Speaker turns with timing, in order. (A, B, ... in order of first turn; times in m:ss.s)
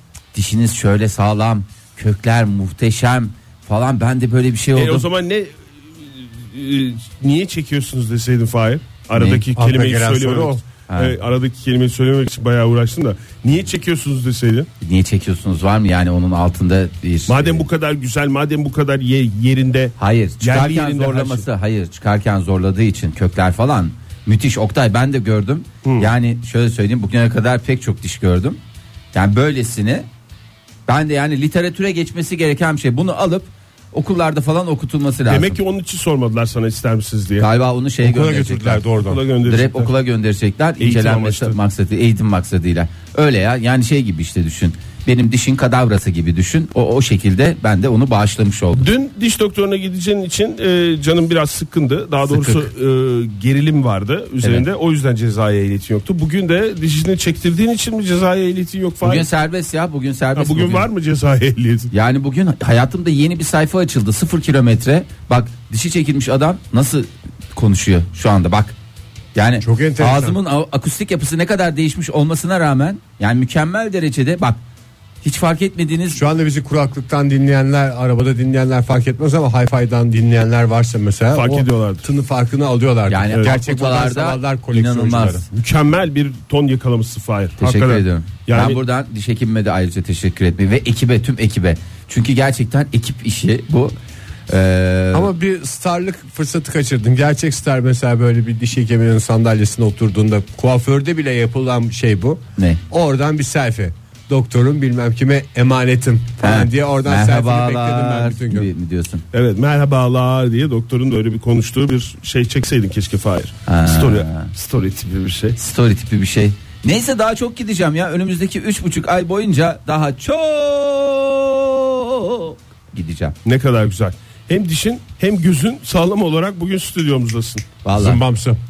0:00.3-0:05.0 A
0:04.7-0:05.5 B
0:06.2-0:14.7 B
0:09.2-0:09.4 A
0:09.5-0:10.6 C
0:10.9-0:11.1 A
0:14.8-0:17.6 A
0:17.3-0:21.4 B
0:20.0-0:28.6 A
0:25.8-0:26.1 B
0:29.1-0:30.1 A
0:30.9-0:35.6 A
0:35.3-0:37.5 B
0:37.4-0:38.8 A
0:38.0-0:39.2 C
0:39.0-0:39.9 B
0:39.4-0:48.8 A
0:40.8-0:41.6 B
0:48.8-0:59.3 B
0:52.3-0:52.7 A
0:59.0-1:00.9 A
1:00.4-1:01.9 B
1:01.9-1:08.7 A
1:09.4-1:14.6 A
1:09.6-1:10.4 C
1:15.2-1:16.2 A
1:16.1-1:25.4 C
1:21.3-1:22.0 B
1:23.1-1:25.4 A
1:25.5-1:28.8 B
1:27.6-1:33.9 A
1:34.5-1:35.3 A
1:35.1-1:48.7 C
1:46.4-1:49.2 A
1:49.3-1:55.6 B
1:53.7-1:54.5 A
1:55.6-2:03.3 A
2:03.4-2:07.6 B
2:07.8-2:08.2 A
2:08.0-2:08.6 C